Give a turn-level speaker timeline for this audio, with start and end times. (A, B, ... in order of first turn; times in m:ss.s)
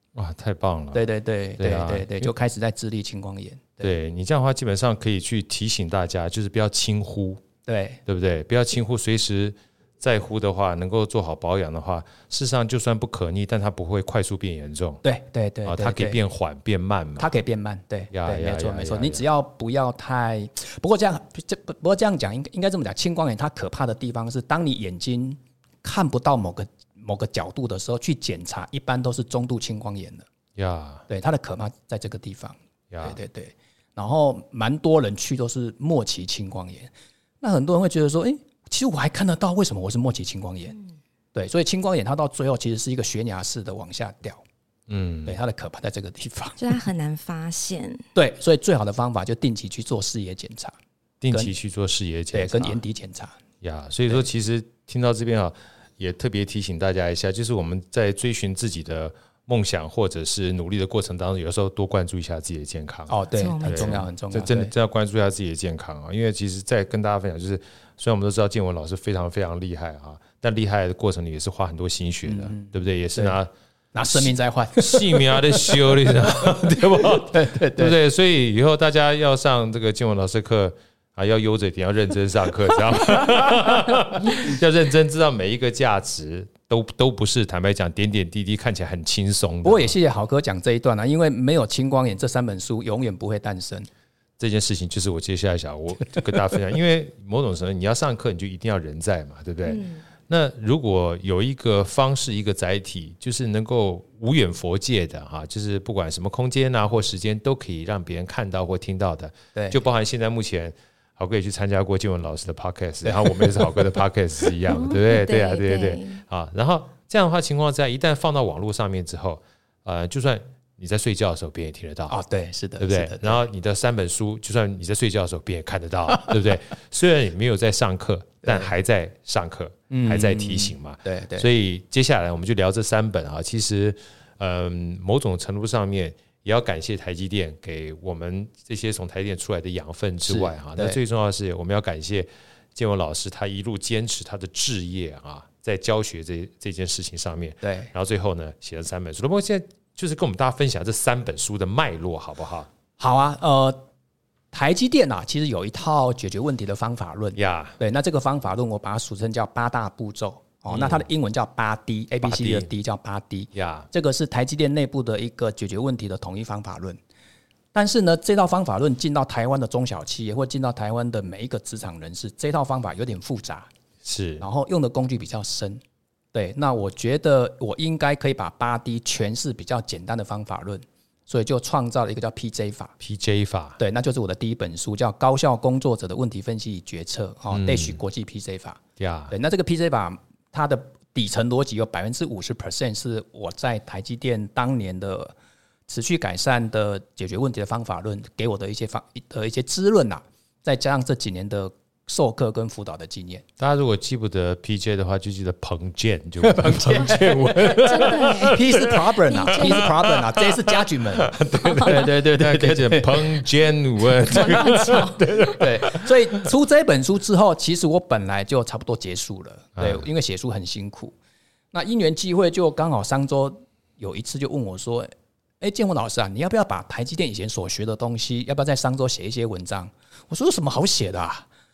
0:00.2-0:01.1 A
0:00.9-0:03.9 B
0:01.6-0:02.3 A
0:03.8-0:07.4 A
0:07.7-0:08.0 B
0:08.1-0:15.0 A
0:15.0-0:16.2 B
0:15.7-0:17.3 A
0:17.2-0:30.3 B
0:18.1-0:19.2 A
0:30.6-0:31.0 A
0:31.1-0:40.8 B
0:32.9-0:33.2 A
0:41.3-0:44.4 B
0:44.9-0:45.4 A
0:45.3-0:46.6 B
0:46.6-0:48.0 C
0:48.2-0:50.8 B
0:51.2-0:52.8 A
0:52.3-0:53.4 B
0:53.6-1:13.5 A
1:03.1-1:04.7 B
1:03.4-1:04.0 C
1:12.3-1:13.4 B
1:13.9-1:18.0 B
1:14.2-1:30.0 A
1:29.6-1:33.9 B
1:34.4-2:02.2 A
1:39.7-1:40.0 C
1:49.6-1:49.8 B
1:53.0-1:53.7 B
1:54.7-1:56.2 C
2:02.1-2:03.4 B
2:02.8-2:32.7 A
2:08.4-2:08.7 B
2:09.9-2:11.5 B
2:20.3-2:21.0 B
2:27.6-2:27.9 B
2:33.0-2:33.8 B
2:34.5-2:47.0 B
2:37.4-2:37.8 A
2:40.7-2:41.0 A
2:42.2-2:42.7 A
2:43.5-2:43.9 A
2:47.7-2:53.7 B
2:54.0-2:54.5 A
2:54.4-2:55.8 B
2:56.3-3:03.0 B
3:03.0-3:03.8 A
3:03.8-3:15.4 B
3:07.5-3:08.0 A
3:09.0-3:09.3 A
3:15.9-3:23.4 B
3:23.6-3:36.5 A
3:26.4-3:33.3 B
3:27.5-3:28.6 C
3:29.2-3:29.9 C
3:34.3-3:35.6 C
3:35.5-3:41.2 B
3:39.8-3:40.1 A
3:41.7-3:45.1 B
3:45.6-3:51.5 B